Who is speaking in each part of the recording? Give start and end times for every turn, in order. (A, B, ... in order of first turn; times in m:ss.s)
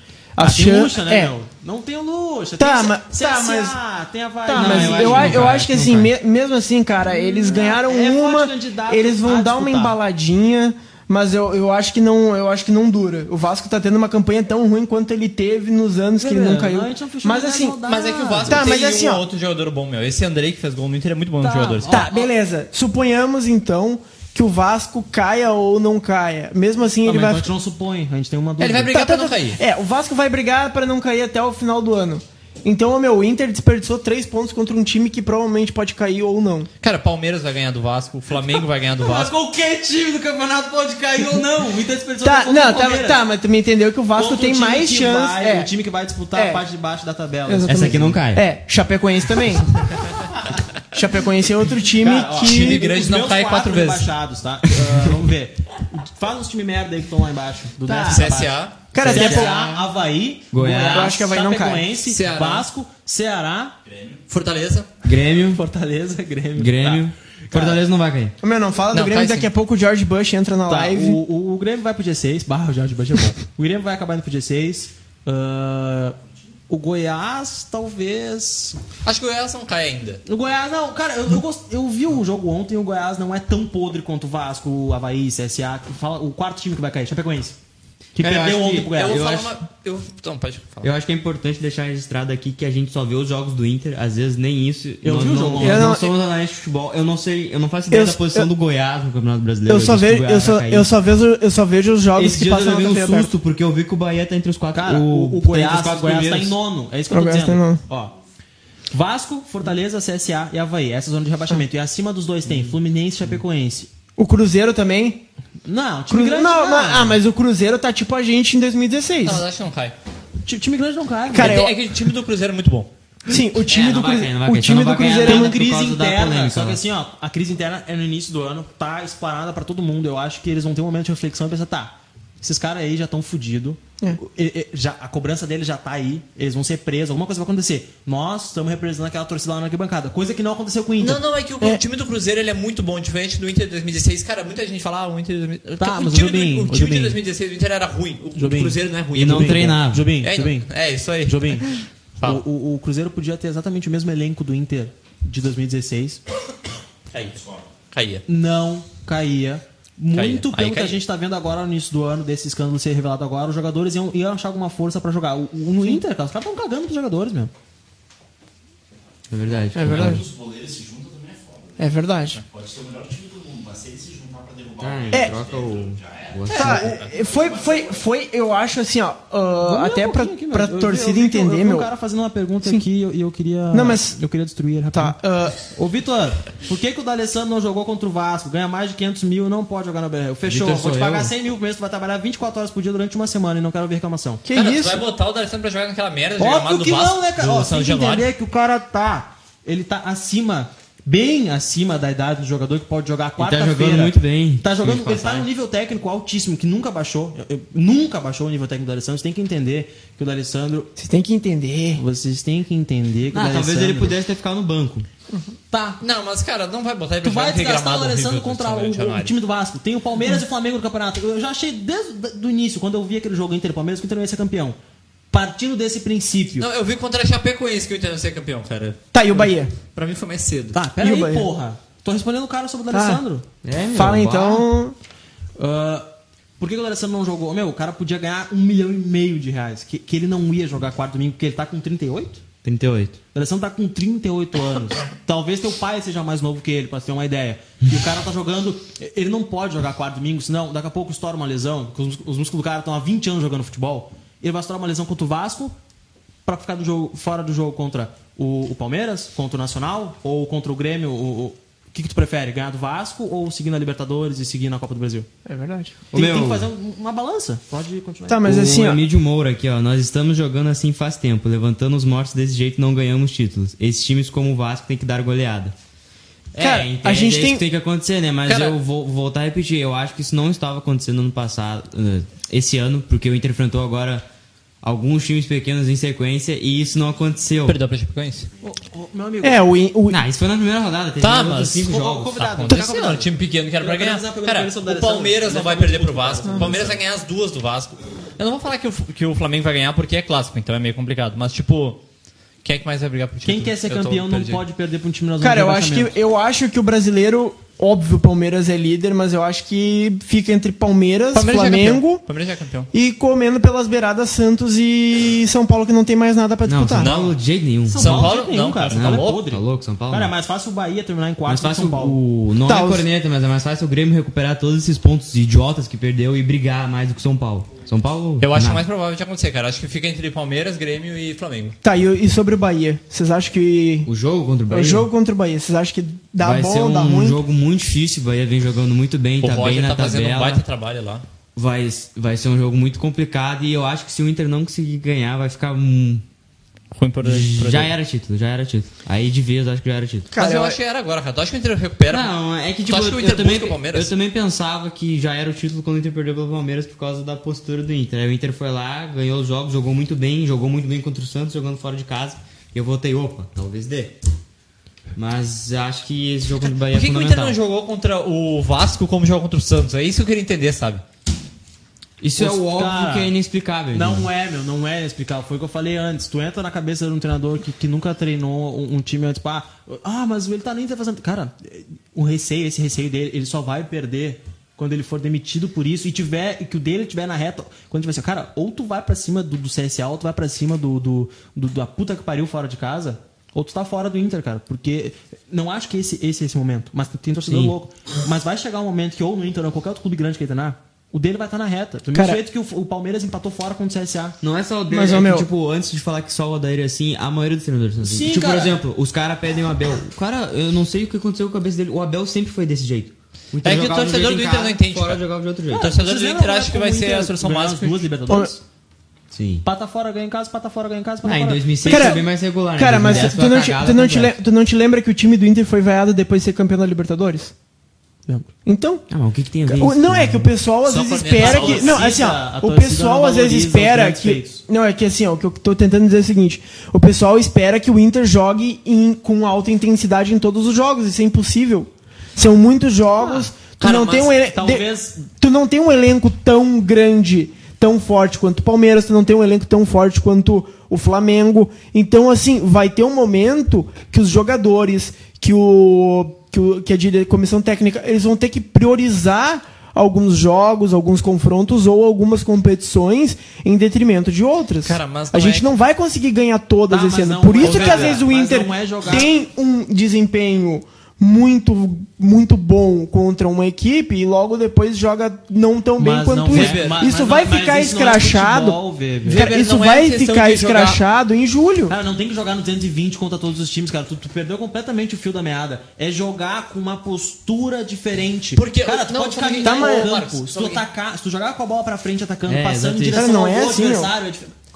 0:00.4-0:01.3 A
0:00.4-0:05.6 B
0:02.6-0:03.8 A
0:04.4-0:17.8 A
0:04.5-0:06.1 C
0:07.0-0:10.0 B
0:16.2-0:18.7 B
0:17.8-0:21.9 D
0:18.5-0:19.2 A
0:21.4-0:22.3 B
0:21.9-0:27.5 A
0:27.0-0:28.9 B
0:28.6-0:29.6 D
0:28.9-0:36.7 A
0:36.8-0:39.3 D
0:38.3-0:43.2 B
0:42.2-0:45.7 A
0:44.2-0:48.2 B
0:46.3-0:46.6 A
0:47.5-0:49.6 A
0:47.6-0:48.4 C
0:50.9-0:52.8 A
0:51.9-1:03.8 B
0:52.4-0:54.1 D
0:57.8-0:58.3 C
0:58.0-0:59.4 D
0:58.9-0:59.8 A
0:59.0-0:59.6 C
1:00.5-1:01.2 C
1:00.8-1:01.9 A
1:02.0-1:02.7 D
1:03.8-1:04.2 E
1:04.3-1:04.9 D
1:05.0-1:05.6 C
1:05.4-1:07.8 B
1:06.5-1:08.3 C
1:08.4-1:11.2 A
1:08.9-1:09.5 D
1:10.7-1:16.2 B
1:16.7-1:18.8 B
1:19.0-1:20.2 D
1:20.2-1:27.6 B
1:28.1-1:29.3 B
1:28.2-1:29.6 C
1:28.9-1:30.9 D
1:30.8-1:40.9 C
1:35.0-1:36.0 B
1:35.6-1:36.1 A
1:37.9-1:38.5 A
1:39.7-1:43.3 A
1:42.1-1:46.6 C
1:44.7-1:48.1 B
1:47.1-1:47.8 A
1:48.9-1:53.9 B
1:54.2-1:55.2 A
1:55.6-1:57.2 B
1:56.1-1:59.4 A
1:59.2-1:59.9 D
2:00.4-2:01.6 B
2:01.3-2:01.8 A
2:01.3-2:02.9 D
2:03.3-2:05.6 A
2:03.6-2:06.8 C
2:05.2-2:21.2 B
2:21.0-2:32.4 D
2:25.8-2:27.2 B
2:28.4-2:30.7 B
2:29.1-2:30.1 C
2:31.2-2:36.2 B
2:37.1-2:37.4 D
2:37.4-2:37.7 E
2:37.9-2:38.2 D
2:38.3-2:47.5 B
2:40.1-2:41.0 D
2:49.3-2:50.2 C
2:49.5-2:58.0 E
2:49.7-2:50.2 A
2:51.8-2:52.4 A
2:54.8-2:57.0 C
2:56.5-3:01.9 A
2:59.6-3:05.2 B
3:03.7-3:04.2 A
3:04.9-3:05.6 A
3:05.7-3:14.4 B
3:10.4-3:11.3 C
3:14.4-3:15.0 A
3:14.5-3:18.3 D
3:16.4-3:30.9 B
3:23.4-3:25.5 C
3:31.0-3:32.0 A
3:31.9-3:34.2 B
3:33.3-3:35.1 C
3:35.7-3:36.0 B
3:36.0-3:39.3 D
3:37.2-3:44.8 B
3:45.3-3:46.7 B
3:46.6-3:50.8 D
3:49.1-3:49.7 A
3:50.7-3:53.4 B
3:51.0-3:51.5 A
3:52.9-3:53.2 A
3:53.6-3:54.7 C
3:53.9-3:54.9 A
3:55.6-3:56.1 B
3:56.6-4:02.4 B
4:02.6-4:03.2 C
4:03.3-4:15.8 B
4:16.4-4:25.3 B
4:25.4-4:25.9 A
4:26.1-4:26.7 C
4:26.1-4:28.6 B
4:28.3-4:29.0 A
4:28.4-4:35.7 C
4:36.5-4:44.2 C
4:36.6-4:37.6 A
4:38.5-4:38.8 D
4:44.8-4:47.8 C
4:47.6-4:48.5 D
4:48.6-4:49.7 B
4:49.4-4:50.2 A
4:50.1-4:52.4 C
4:51.2-4:51.8 D
4:51.7-4:57.0 B
4:52.4-5:02.0 D
5:02.6-5:04.6 D
5:03.4-5:06.1 B
5:05.4-5:12.2 A
5:11.3-5:12.9 D
5:12.9-5:17.1 A
5:16.6-5:18.3 C
5:17.0-5:17.4 D
5:17.9-5:22.2 B
5:17.9-5:19.4 D
5:18.9-5:20.3 C
5:21.4-5:28.8 C
5:22.6-5:23.0 A
5:28.4-5:31.8 D
5:31.8-5:34.1 A
5:34.0-5:35.1 C
5:34.7-5:37.4 A
5:36.4-5:40.6 C
5:39.4-5:41.2 D
5:41.5-5:46.2 C
5:46.9-5:47.9 D
5:47.2-5:50.3 C
5:50.3-5:50.8 A
5:50.4-5:52.3 D
5:52.1-6:04.2 C
5:52.8-5:54.1 D
6:05.1-6:07.6 C
6:06.9-6:11.0 D
6:12.2-6:14.3 C
6:12.4-6:13.3 B
6:13.9-6:44.4 B
6:37.4-6:37.8 C
6:42.1-6:42.4 A
6:44.4-6:55.9 C
6:44.9-6:45.5 A
6:48.0-6:48.8 B
6:53.6-6:55.2 D
6:55.7-6:58.6 B
6:55.7-6:58.1 D
6:59.3-6:59.6 C
6:59.6-7:02.2 B
7:01.2-7:04.4 C
7:01.8-7:07.5 A
7:03.0-7:03.3 B
7:08.6-7:09.0 A
7:09.1-7:10.5 C
7:09.7-8:01.9 A
7:10.8-7:12.1 D
7:11.4-7:14.6 B
7:23.8-7:24.3 D
7:24.4-7:25.2 B
7:44.8-7:45.7 D
7:46.9-7:49.3 B
7:47.6-7:48.2 D
7:56.0-7:59.5 B
7:56.5-7:57.0 D
7:59.2-8:01.0 D
8:01.9-8:14.5 B
8:08.6-8:10.8 D
8:09.6-8:10.1 A
8:12.4-8:13.3 C
8:13.1-8:14.1 A